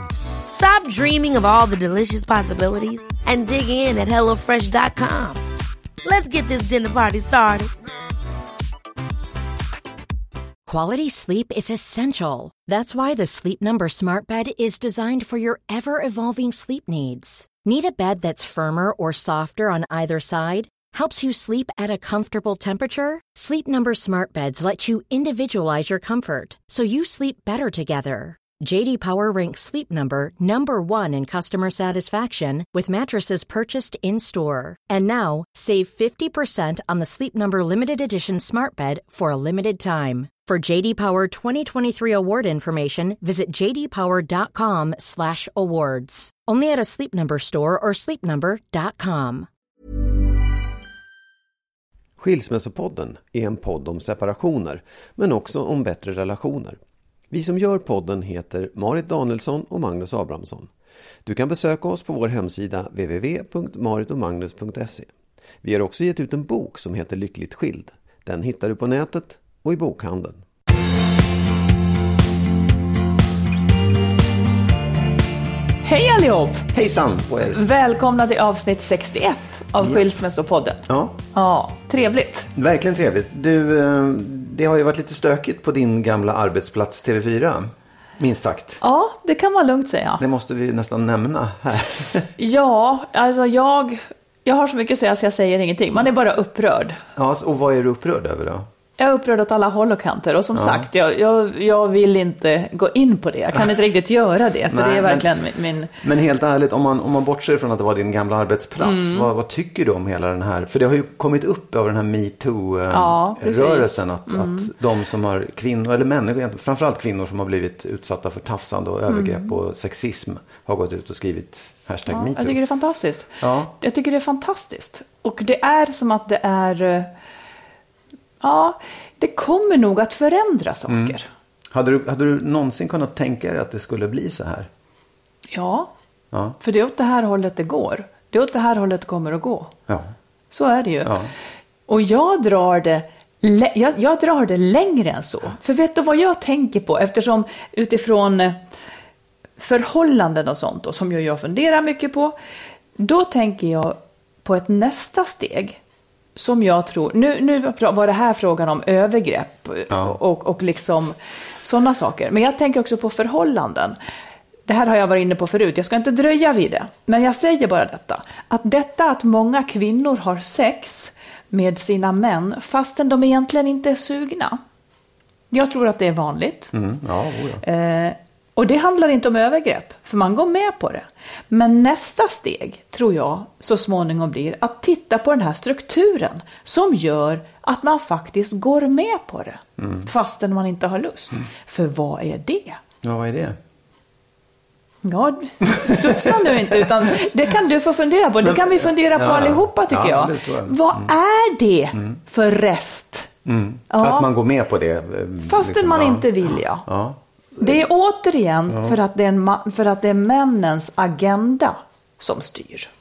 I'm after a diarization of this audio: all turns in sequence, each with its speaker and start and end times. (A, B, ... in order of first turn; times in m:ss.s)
0:00.5-0:05.4 A
0:06.0-0:07.7 A
0:10.6-0:49.5 B
0:52.2-0:56.8 C
0:57.3-1:00.7 C
1:01.2-1:10.4 C
1:15.8-1:16.6 D
1:16.7-1:17.6 C
1:17.5-1:22.5 D
1:19.8-1:20.0 C
1:20.9-1:21.2 C
1:22.5-1:28.8 C
1:28.8-1:30.2 D
1:30.2-1:32.3 C
1:32.4-1:37.0 D
1:37.2-1:38.7 C
1:39.0-1:45.9 D
1:40.5-1:40.9 C
1:44.7-1:45.3 C
1:46.0-2:02.6 C
1:48.8-1:49.3 D
1:52.9-1:54.7 D
1:59.1-1:59.6 D
2:02.1-2:07.1 D
2:03.4-2:03.7 C
2:08.4-2:11.2 D
2:10.9-2:11.2 C
2:11.7-2:14.7 C
2:15.5-2:15.9 D
2:16.3-2:16.6 C
2:16.6-2:19.7 D
2:20.5-2:21.1 D
2:21.0-2:21.3 C
2:21.9-2:28.6 D
2:29.6-2:32.3 D
2:33.0-2:35.8 D
2:36.4-2:44.0 D
2:39.9-2:40.2 C
2:44.7-2:54.6 D
2:55.5-2:56.7 D
2:56.7-2:57.6 C
2:57.6-3:12.8 D
3:09.8-3:10.1 C
3:13.0-3:13.6 C
3:15.0-3:23.3 D
3:15.6-3:17.2 C
3:18.4-3:21.1 C
3:21.9-3:22.2 C
3:23.4-3:27.8 C
3:23.9-3:24.3 D
3:25.5-3:26.8 D
3:27.6-3:32.9 D
3:28.7-3:29.0 C